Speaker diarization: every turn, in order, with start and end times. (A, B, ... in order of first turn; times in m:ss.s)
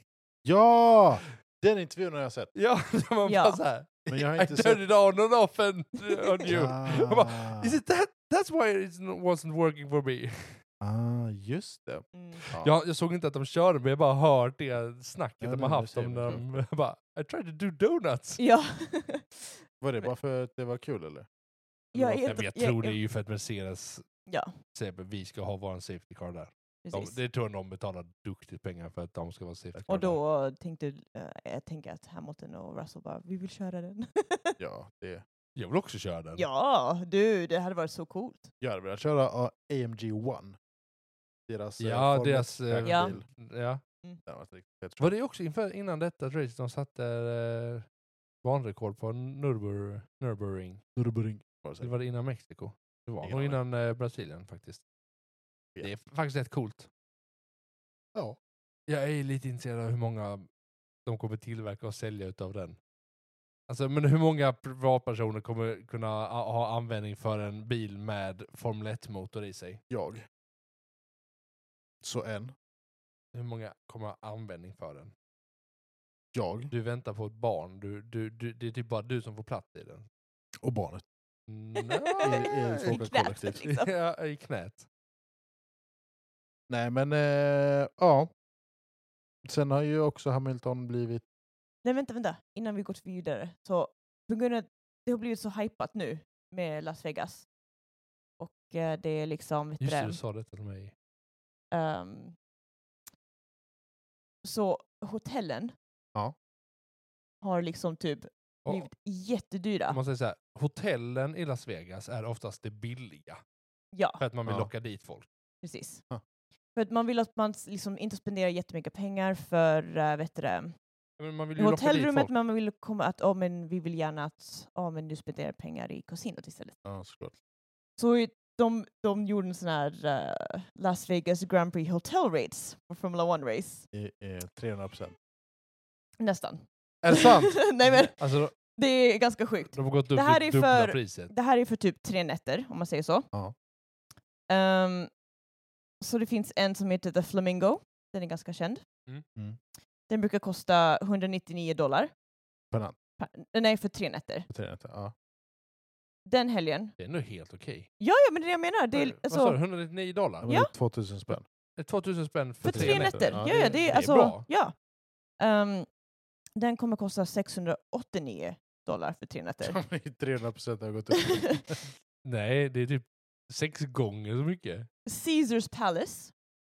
0:00.4-0:02.5 A
0:02.5-0:10.6 B
0:03.2-0:03.6 C
0:04.1-0:04.8 A
0:06.1-0:06.5 C
0:06.5-0:07.8 A
0:10.8-0:12.7 A
0:12.1-0:12.4 C
0:12.4-0:18.4 B
0:15.4-0:16.6 A
0:18.4-0:20.1 C
0:19.8-0:21.3 A
0:21.9-0:22.3 A
0:21.9-0:23.0 C
0:22.2-0:24.0 B
0:24.2-0:24.6 C
0:24.7-0:30.2 B
0:26.8-0:27.2 C
0:29.9-0:34.6 C
0:34.6-0:35.2 A
0:35.6-0:36.4 B
0:36.4-0:38.5 C
0:38.6-0:40.6 A
0:41.5-0:43.2 A
0:41.8-0:43.8 B
0:42.8-0:43.1 C
0:44.2-0:45.1 A
0:45.0-0:47.9 B
0:48.4-0:50.8 B
0:51.0-0:51.9 A
0:51.8-0:54.8 B
0:53.2-0:53.6 A
0:55.8-0:56.9 B
0:58.9-1:00.5 B
1:01.1-1:02.8 B
1:03.7-1:09.8 B
1:09.9-1:10.2 A
1:12.0-1:12.5 A
1:13.3-1:15.1 B
1:16.3-1:16.7 A
1:16.7-1:20.1 B
1:20.6-1:21.0 A
1:21.5-1:24.9 B
1:21.8-1:23.9 C
1:22.2-1:23.6 A
1:26.7-1:28.3 A
1:29.5-1:31.2 A
1:31.8-1:37.5 C
1:38.4-1:40.2 C
1:39.8-1:40.9 B
1:41.7-1:42.4 C
1:44.4-1:45.8 C
1:47.4-1:50.0 C
1:49.9-1:53.4 B
1:53.9-1:54.2 C
1:54.2-1:55.3 B
1:54.5-1:54.7 A
1:55.6-1:56.0 C
1:56.8-2:00.7 C
2:01.2-2:02.3 B
2:01.6-2:06.8 C
2:06.8-2:07.4 A
2:08.0-2:13.9 C
2:13.9-2:15.2 A
2:16.2-2:23.3 C
2:17.0-2:17.6 A
2:17.2-2:18.5 B
2:19.7-2:21.3 B
2:24.5-2:25.1 C
2:26.0-2:28.8 C
2:30.1-2:32.1 C
2:33.2-2:34.5 C
2:34.5-2:35.1 A
2:36.3-2:37.0 C
2:37.0-2:37.9 B
2:38.0-2:39.6 C
2:38.9-2:40.5 B
2:40.4-2:41.4 A
2:41.8-2:44.5 B
2:42.6-2:44.7 C
2:42.7-2:43.5 A
2:45.4-2:45.9 C
2:46.6-2:49.8 C
2:49.6-2:51.8 A
2:51.3-2:51.6 C
2:52.2-2:54.9 B
2:55.1-2:56.3 C